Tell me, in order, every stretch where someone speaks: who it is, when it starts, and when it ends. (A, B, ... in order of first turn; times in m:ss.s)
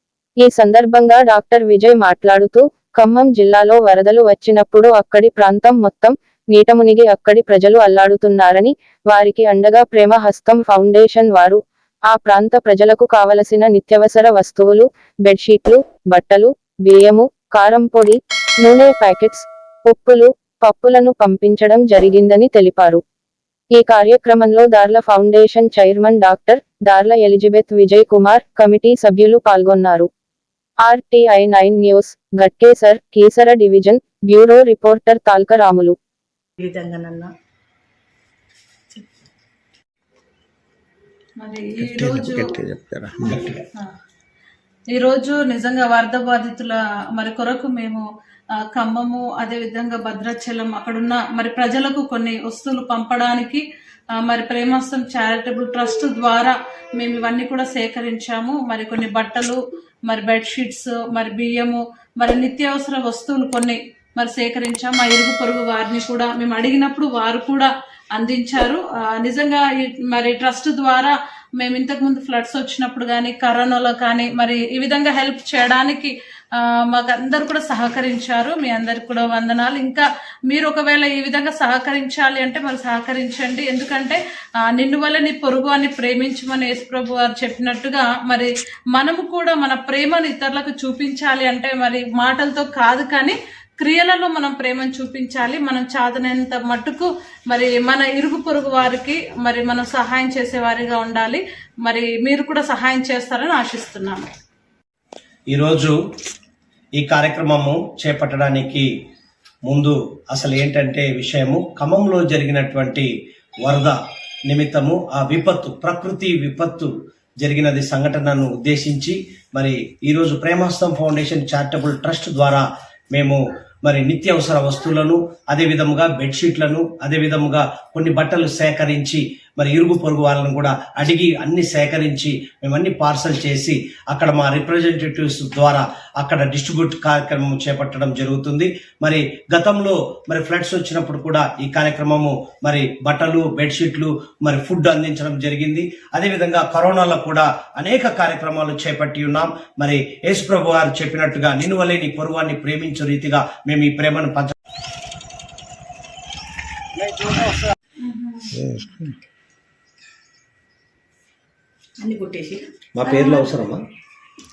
0:00.4-0:23.0 A
0:23.7-0:30.1 A
0:30.8-0:36.0 A
0:36.6-0:37.3 B
0:41.4-0:42.5 C
0:41.8-0:43.6 D
0:43.2-0:43.9 C
0:44.9-0:48.0 C
0:48.6-0:53.6 C
0:54.2-1:44.3 C
1:45.5-1:46.0 E
1:47.0-1:48.9 E
1:49.6-1:53.1 E
1:53.6-2:34.6 E
2:38.0-2:38.7 C
2:38.6-2:39.1 D
2:42.0-2:43.6 B
2:43.0-2:43.8 E